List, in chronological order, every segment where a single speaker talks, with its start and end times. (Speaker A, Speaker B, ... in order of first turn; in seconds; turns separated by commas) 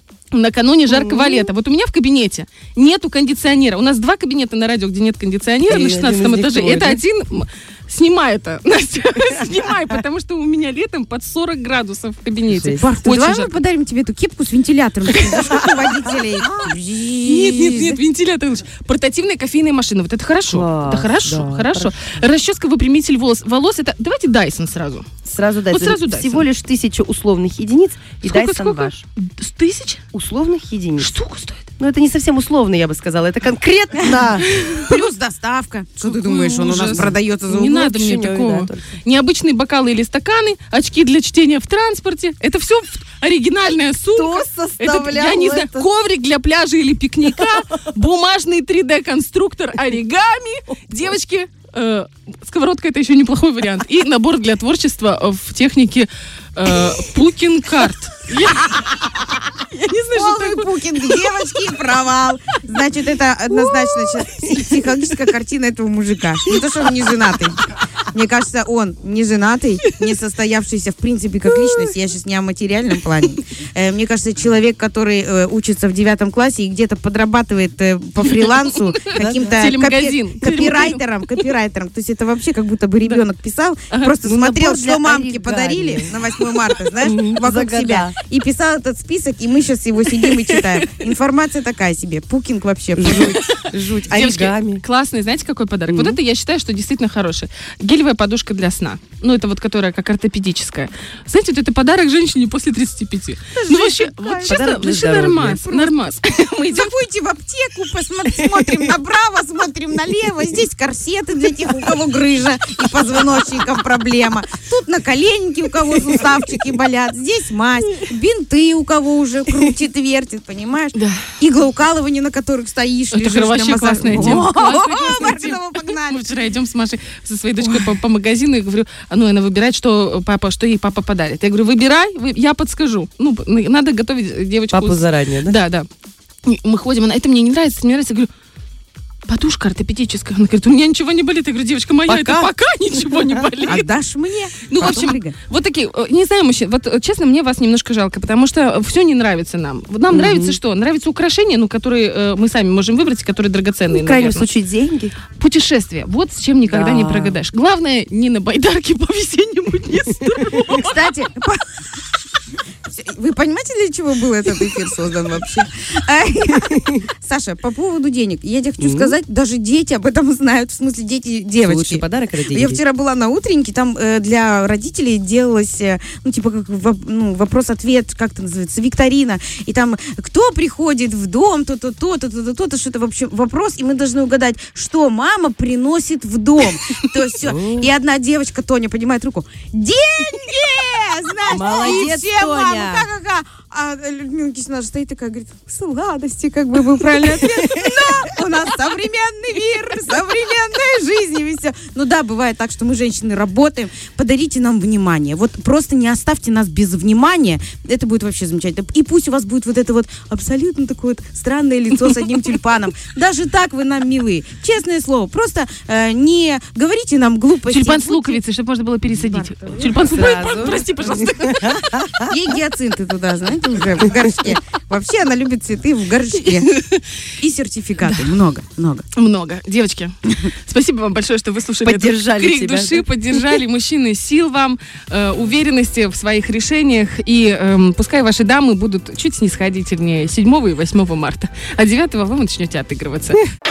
Speaker A: 0.3-13.6, Speaker B: 0.9-1.5, Speaker B: 5.7-7.0, Speaker B: 12.5-12.8, Speaker C: 12.8-18.0, Speaker A: 17.2-25.1, Speaker B: 20.5-22.1, Speaker B: 25.3-29.0, Speaker A: 25.7-26.5, Speaker A: 28.2-30.0, Speaker B: 30.1-31.1, Speaker A: 31.0-31.7, Speaker B: 31.8-34.5, Speaker C: 34.0-37.9, Speaker A: 36.0-61.5, Speaker B: 36.8-39.0, Speaker B: 44.1-45.9, Speaker C: 60.1-93.4, Speaker A: 63.5-64.8, Speaker A: 78.4-81.0, Speaker B: 79.2-79.7, Speaker B: 84.2-86.2, Speaker B: 87.0-88.2, Speaker A: 90.1-91.0, Speaker B: 93.0-94.8, Speaker A: 93.2-106.9, Speaker B: 95.9-96.2, Speaker C: 103.6-104.8, Speaker B: 104.4-105.7, Speaker C: 105.7-106.0, Speaker C: 106.7-126.4, Speaker A: 121.0-121.3, Speaker A: 123.1-135.9, Speaker B: 124.1-124.6, Speaker B: 134.7-135.6, Speaker A: 136.4-138.3, Speaker A: 139.3-143.9, Speaker B: 142.1-142.5, Speaker B: 143.1-143.5, Speaker C: 143.7-145.3, Speaker A: 144.7-154.5, Speaker B: 150.1-150.6, Speaker B: 153.9-155.2, Speaker A: 155.3-160.9, Speaker B: 156.7-157.4, Speaker C: 160.7-161.6, Speaker C: 162.8-218.4, Speaker B: 168.8-169.2, Speaker B: 171.6-172.8, Speaker B: 187.4-187.9, Speaker B: 191.5-193.1, Speaker A: 217.7-222.0, Speaker C: 219.2-220.0, Speaker B: 219.8-222.2, Speaker C: 222.2-226.7, Speaker A: 226.6-227.0, Speaker C: 227.4-229.1, Speaker A: 228.0-228.3, Speaker A: 229.2-243.4, Speaker B: 231.8-233.6